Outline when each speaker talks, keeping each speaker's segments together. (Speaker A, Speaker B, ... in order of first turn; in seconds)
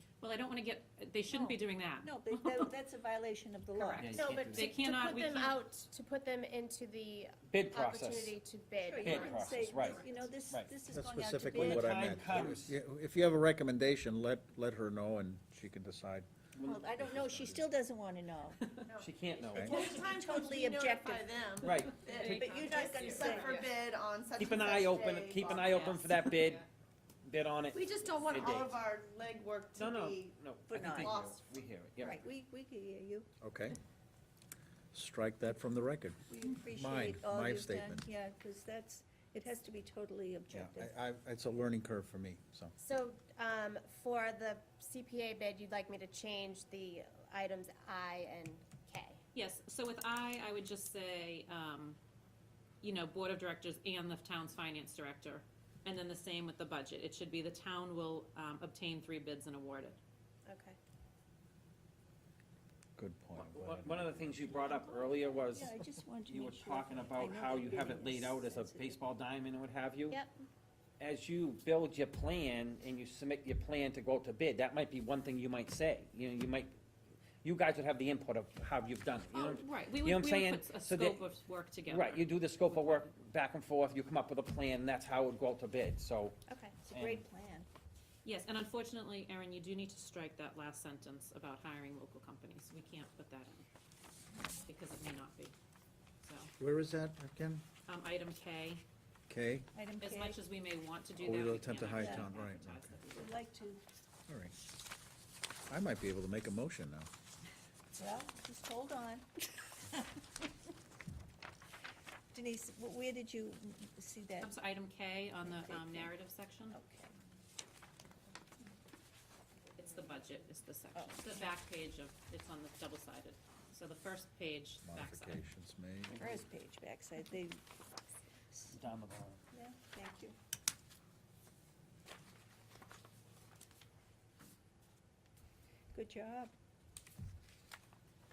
Speaker A: 0.2-2.6, 3.7-5.6, 21.9-23.7, 25.6-26.6, 49.3-52.0, 52.8-60.0, 79.3-83.1, 88.2-93.7, 94.6-95.5, 96.2-96.5, 97.9-98.8, 100.0-103.4, 114.4-116.8, 119.8-125.4
Speaker B: 1.3-4.1, 8.8-12.5, 16.6-18.7, 19.6-23.7, 30.7-31.2, 32.0-33.3, 36.3-41.0, 64.7-69.0, 86.8-87.7, 99.7-100.4, 102.0-102.3, 103.1-103.8, 107.9-110.2, 112.3-114.5, 115.4-116.1, 116.7-117.2, 121.0-121.5, 126.2-127.6, 129.5-130.3, 135.9-136.5
Speaker C: 4.0-4.7, 7.5-8.3, 9.0-10.7, 11.5-12.8, 16.6-16.9, 19.0-19.8, 21.6-22.1, 24.4-26.6, 27.2-28.9, 29.8-32.2, 63.4-70.2, 71.0-76.8, 77.4-81.3, 81.9-86.4, 86.9-87.2, 126.1-126.5, 128.7-129.4
Speaker D: 4.1-10.3, 42.8-49.2, 60.5-60.8, 70.1-70.4, 86.5-86.8
Speaker E: 10.9-17.7, 33.4-33.8, 34.9-38.1, 40.5-42.8, 63.0-64.6, 96.6-97.6, 99.3-99.7, 101.2-102.9, 104.3-104.5, 105.7-107.1, 124.8-126.2
Speaker F: 19.6-25.9, 27.7-30.3, 31.0-31.4